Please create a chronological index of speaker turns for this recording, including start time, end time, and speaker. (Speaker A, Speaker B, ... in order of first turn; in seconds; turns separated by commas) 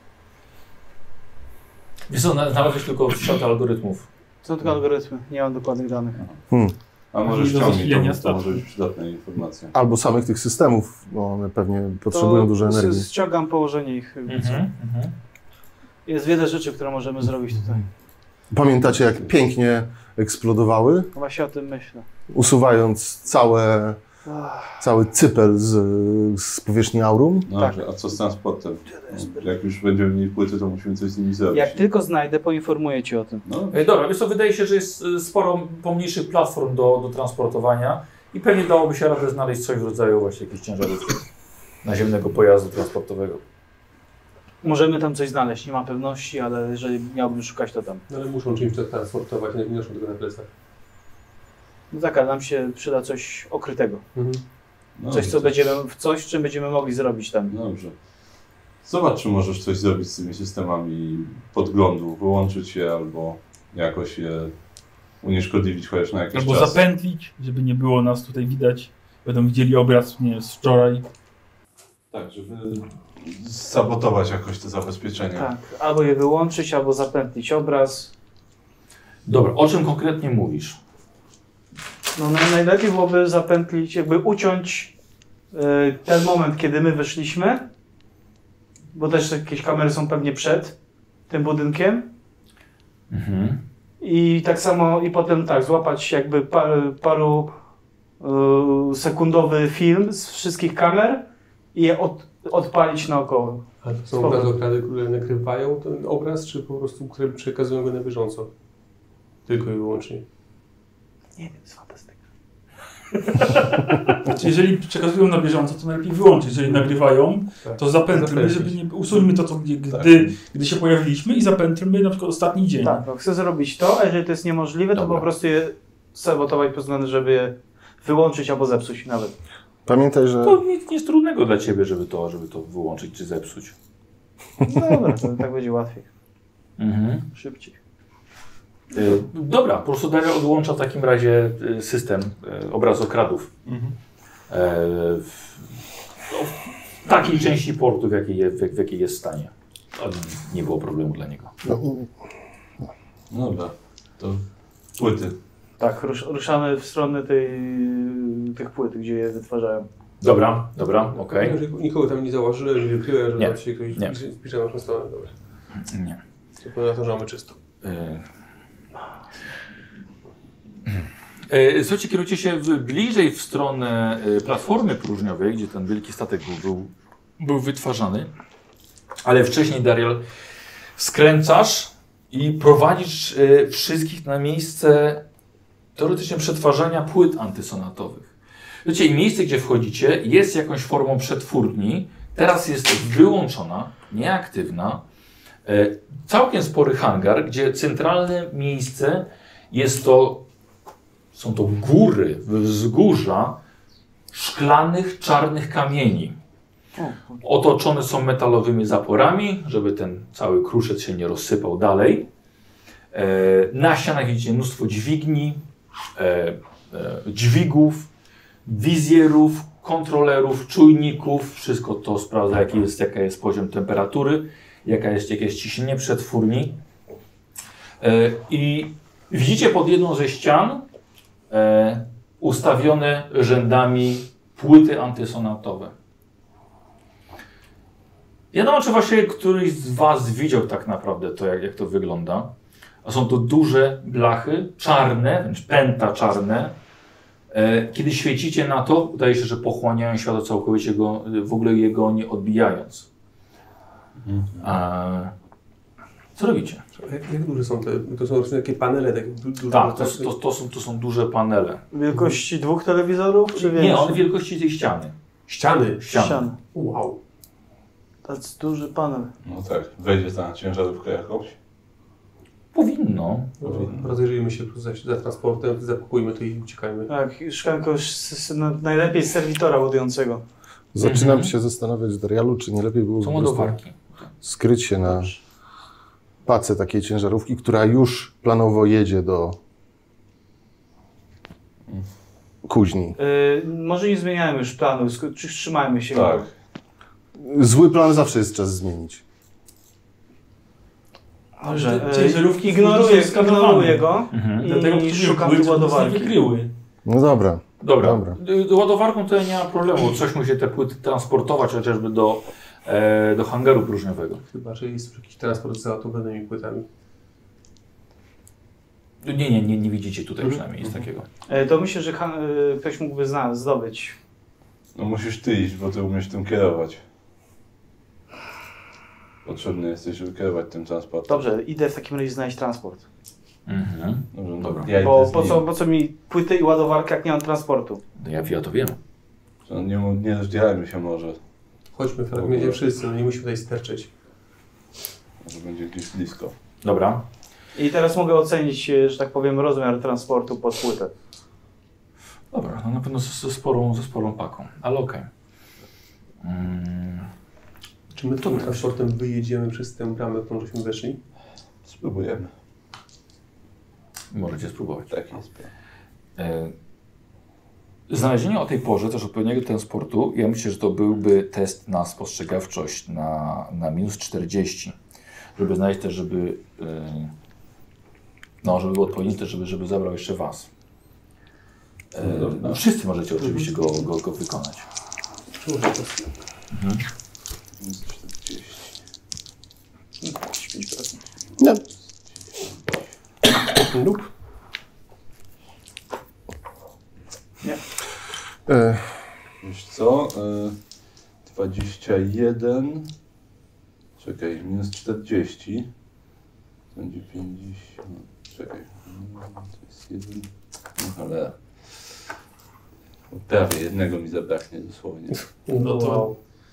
Speaker A: 2.1-4.1, Speaker B: 4.4-6.2, Speaker C: 7.1-9.7, Speaker D: 7.2-8.6, Speaker E: 9.7-13.1, Speaker B: 12.1-14.6, Speaker A: 14.3-15.1, Speaker B: 16.1-17.9, Speaker E: 18.5-21.1, Speaker C: 18.9-19.3, Speaker B: 21.1-22.1, Speaker E: 22.3-24.0, Speaker B: 24.2-24.8, Speaker E: 24.8-27.5, Speaker C: 27.5-31.8, Speaker B: 27.5-27.8, Speaker B: 28.9-29.5, Speaker B: 31.5-33.4, Speaker C: 33.4-33.8, Speaker A: 33.7-41.2, Speaker A: 41.8-43.4, Speaker B: 44.6-48.0, Speaker F: 48.1-50.5, Speaker B: 51.9-54.0, Speaker F: 54.1-54.4, Speaker C: 55.0-55.6, Speaker B: 55.1-57.5, Speaker C: 57.5-57.9, Speaker C: 58.8-64.5, Speaker C: 65.2-66.8, Speaker D: 66.3-71.0, Speaker C: 72.1-75.5, Speaker B: 75.3-78.1, Speaker A: 79.2-80.8, Speaker B: 82.2-84.9, Speaker B: 85.5-87.7, Speaker B: 88.9-90.8, Speaker B: 91.3-92.1, Speaker A: 93.1-93.6, Speaker B: 94.0-97.5, Speaker B: 98.2-104.5, Speaker F: 103.8-108.5, Speaker F: 109.5-110.2, Speaker B: 111.4-112.1, Speaker D: 113.4-123.0, Speaker F: 116.7-116.9, Speaker F: 117.6-119.2, Speaker C: 119.9-120.3, Speaker B: 122.8-129.3, Speaker A: 124.9-125.3, Speaker E: 129.9-130.6, Speaker A: 130.4-133.7, Speaker B: 134.6-136.1, Speaker A: 136.8-137.3, Speaker B: 137.3-137.8, Speaker A: 138.9-143.5, Speaker C: 143.7-143.9, Speaker A: 144.5-145.7, Speaker A: 146.3-151.5, Speaker E: 151.6-152.1, Speaker C: 153.3-154.4, Speaker C: 155.0-155.4, Speaker B: 155.8-159.9, Speaker A: 160.2-161.6, Speaker F: 161.1-165.3, Speaker A: 163.4-164.2, Speaker A: 165.8-166.2, Speaker F: 166.6-167.6, Speaker A: 167.8-168.2, Speaker A: 171.5-178.3, Speaker A: 179.2-180.2, Speaker A: 181.0-185.2, Speaker A: 185.9-188.3, Speaker A: 188.8-195.0, Speaker A: 195.7-200.4, Speaker A: 201.3-203.6, Speaker A: 204.3-206.4, Speaker B: 207.0-207.4, Speaker A: 207.4-212.3, Speaker A: 213.1-215.6, Speaker A: 216.2-218.1, Speaker A: 218.7-226.8, Speaker A: 228.0-230.8, Speaker A: 231.5-235.9, Speaker A: 238.5-242.5, Speaker A: 243.0-246.7, Speaker A: 247.5-253.1, Speaker C: 254.2-254.6, Speaker A: 254.6-255.3, Speaker A: 256.4-256.8, Speaker F: 256.9-260.3, Speaker A: 259.7-261.8, Speaker B: 261.9-264.2, Speaker A: 263.5-265.1, Speaker F: 265.5-267.2, Speaker A: 265.8-266.5, Speaker B: 266.1-266.6, Speaker B: 268.2-269.3, Speaker C: 269.4-271.6, Speaker A: 272.7-273.5, Speaker F: 273.6-277.1, Speaker C: 273.6-274.1, Speaker B: 277.1-280.4, Speaker E: 280.9-283.8, Speaker A: 281.0-281.5, Speaker A: 283.2-284.3, Speaker E: 284.4-285.3, Speaker B: 285.1-285.4, Speaker E: 286.4-289.6, Speaker E: 292.7-293.2, Speaker B: 293.2-296.4, Speaker C: 296.1-296.5, Speaker E: 297.4-299.2, Speaker B: 301.6-306.4, Speaker D: 301.6-306.7, Speaker A: 304.3-304.7, Speaker E: 307.0-308.4, Speaker A: 307.8-314.4, Speaker F: 314.5-316.9, Speaker A: 319.2-321.2, Speaker B: 321.5-324.2, Speaker C: 324.9-327.0, Speaker C: 329.4-331.4, Speaker B: 331.3-333.0, Speaker A: 333.7-334.9, Speaker C: 334.3-335.6, Speaker B: 334.9-338.0, Speaker A: 338.2-339.0, Speaker C: 339.7-341.4, Speaker F: 341.9-344.1, Speaker C: 342.3-342.8, Speaker C: 345.4-346.6, Speaker A: 346.8-347.2, Speaker B: 347.8-351.1, Speaker A: 352.5-355.3, Speaker A: 356.4-357.3, Speaker F: 358.1-361.2, Speaker A: 358.4-358.9, Speaker C: 361.8-362.5, Speaker A: 364.3-365.1, Speaker C: 365.1-365.7, Speaker A: 366.4-366.7, Speaker A: 368.1-374.9, Speaker A: 375.6-377.3, Speaker A: 378.6-380.7, Speaker A: 382.1-384.9, Speaker C: 382.2-382.8, Speaker F: 385.6-386.3, Speaker A: 386.7-387.0, Speaker C: 387.8-388.9, Speaker B: 390.2-391.2, Speaker F: 393.9-394.2, Speaker E: 398.7-399.1, Speaker C: 399.6-400.8, Speaker C: 401.4-403.1, Speaker C: 404.2-405.9, Speaker C: 406.9-412.1, Speaker C: 413.3-415.4, Speaker F: 415.3-416.3, Speaker D: 415.8-416.3